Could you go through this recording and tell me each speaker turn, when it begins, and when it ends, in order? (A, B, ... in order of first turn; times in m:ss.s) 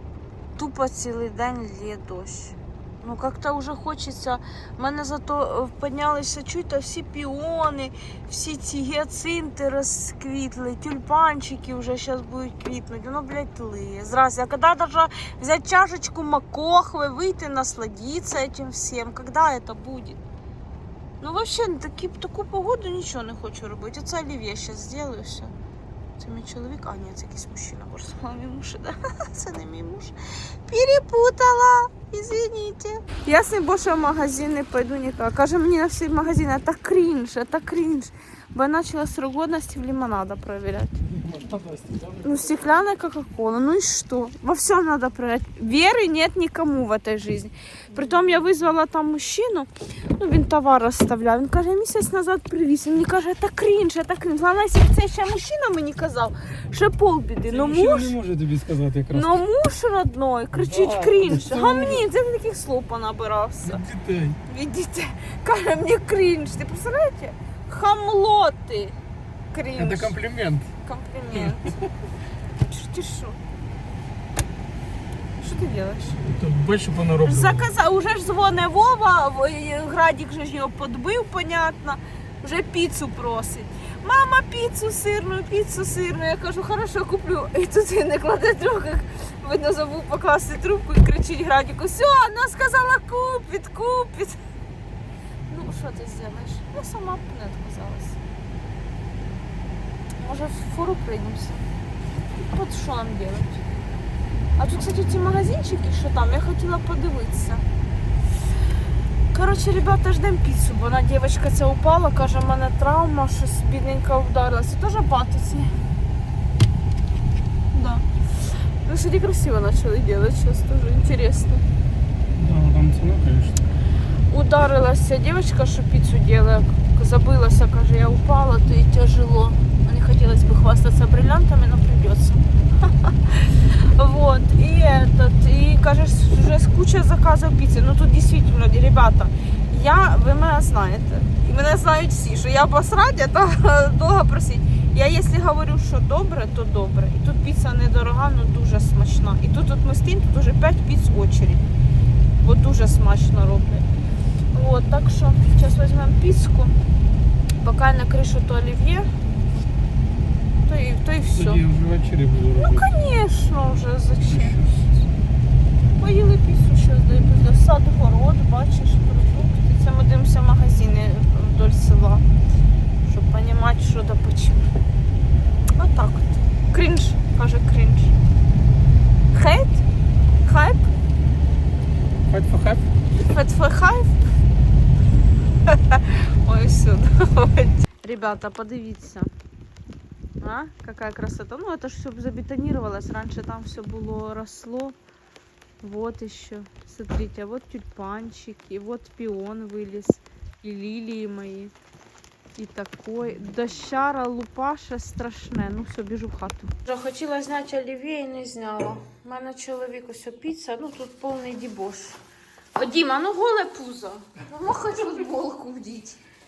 0:00.6-0:20.2 A
0:21.2-0:25.5 A
0:26.2-0:30.1 A
0:30.7-0:41.0 A
0:41.1-0:42.3 B
0:42.2-0:58.1 A
0:57.5-0:59.4 B
0:59.1-1:03.8 A
1:00.5-1:02.0 B
1:03.6-1:04.4 B
1:04.5-1:09.0 A
1:09.5-1:10.1 A
1:09.7-1:10.7 B
1:10.8-1:11.8 A
1:12.6-1:13.4 A
1:15.4-1:16.2 A
1:16.2-1:17.7 B
1:17.2-1:34.4 A
1:35.5-1:38.2 A
1:40.2-1:41.7 A
1:42.3-1:43.7 A
1:44.6-1:47.6 A
1:49.3-1:55.7 A
1:57.7-2:01.6 A
2:02.3-2:03.6 B
2:04.3-2:31.6 A
2:32.4-2:33.8 A
2:34.5-2:36.8 A
2:37.6-2:39.1 A
2:40.6-2:41.6 A
2:41.3-2:42.9 B
2:42.6-2:45.0 A
2:44.3-2:44.7 B
2:46.0-2:52.2 A
2:53.0-2:54.7 A
2:55.8-2:58.1 A
2:59.3-2:59.8 A
3:00.4-3:00.9 A
3:02.3-3:02.8 B
3:03.3-3:04.2 A
3:05.6-3:09.3 A
3:10.4-3:15.0 A
3:15.8-3:21.7 A
3:22.6-3:32.2 A
3:32.8-3:36.2 A